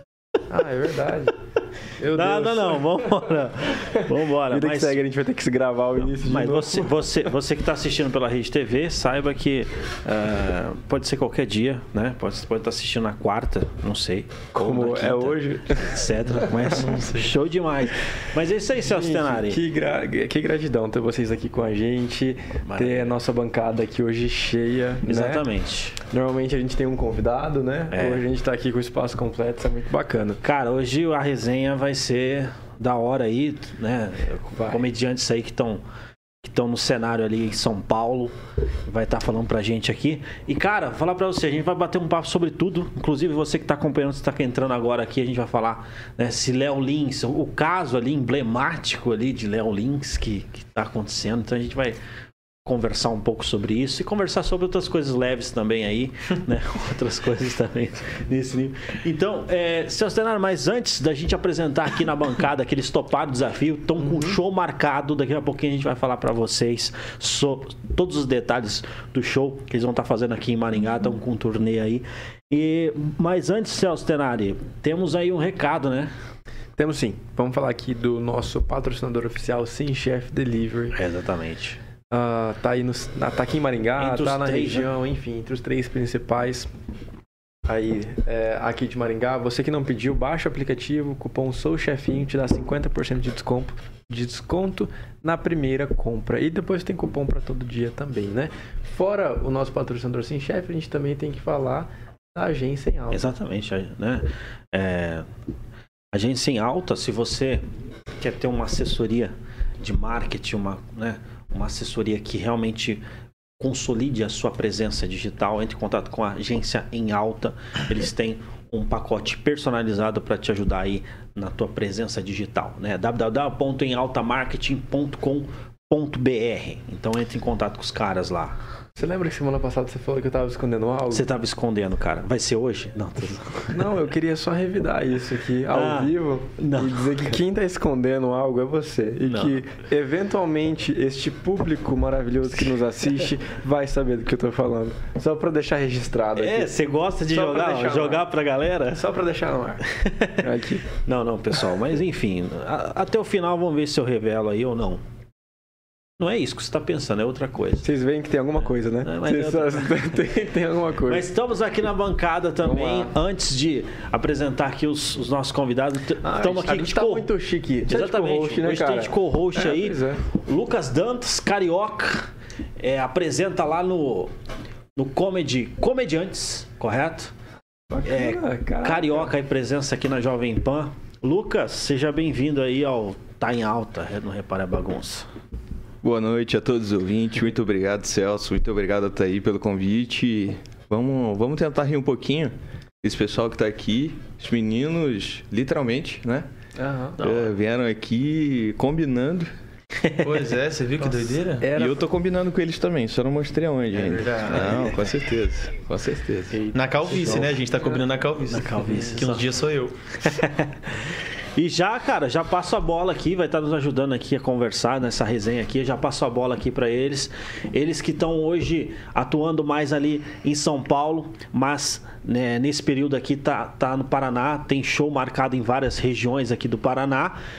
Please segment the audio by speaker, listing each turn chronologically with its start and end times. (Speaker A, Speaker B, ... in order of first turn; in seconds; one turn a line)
Speaker A: 0.5-1.3
Speaker A: 2.0-3.0
Speaker B: 2.1-5.0
Speaker A: 3.9-6.9
Speaker B: 6.2-19.6
Speaker A: 14.5-16.0
Speaker C: 16.3-17.4
Speaker A: 18.8-25.5
Speaker B: 22.6-23.1
Speaker B: 25.0-26.0
Speaker A: 26.1-30.4
Speaker B: 27.9-28.2
Speaker B: 30.4-35.8
Speaker B: 36.4-38.3
Speaker B: 38.9-52.0
Speaker B: 52.6-76.1
Speaker A: 76.8-81.0
Speaker B: 80.9-81.8
Speaker A: 82.1-86.7
Speaker B: 84.0-84.9
Speaker A: 87.7-103.3
Speaker B: 103.1-105.3
Speaker B: 106.1-107.6
Speaker B: 108.2-113.0
Speaker B: 113.6-128.6
Speaker A: 128.9-131.3
Speaker B: 131.1-133.8
Speaker A: 133.7-146.7
Speaker B: 135.7-137.1
Speaker B: 139.2-139.6
Speaker B: 146.3-149.1
Speaker A: 147.3-148.2
Speaker A: 148.9-149.8
Speaker B: 149.8-155.0
Speaker A: 150.4-150.8
Speaker B: 156.2-157.8
Speaker A: 157.8-161.2
Speaker B: 159.0-160.0
Speaker B: 161.1-167.3
Speaker A: 162.6-163.1
Speaker A: 166.2-170.2
Speaker B: 167.8-174.3
Speaker B: 174.9-177.3
Speaker A: 177.9-179.3
Speaker B: 178.0-185.3
Speaker D: 186.0-196.5
Speaker A: 196.8-197.2
Speaker B: 197.2-197.5
Speaker D: 197.2-199.5
Speaker C: 200.2-201.7
Speaker A: 201.6-202.0
Speaker D: 201.7-206.6
Speaker C: 204.0-204.9
Speaker C: 206.7-209.9
Speaker B: 207.1-207.5
Speaker B: 208.5-209.5
Speaker B: 210.2-210.9
Speaker B: 211.5-227.4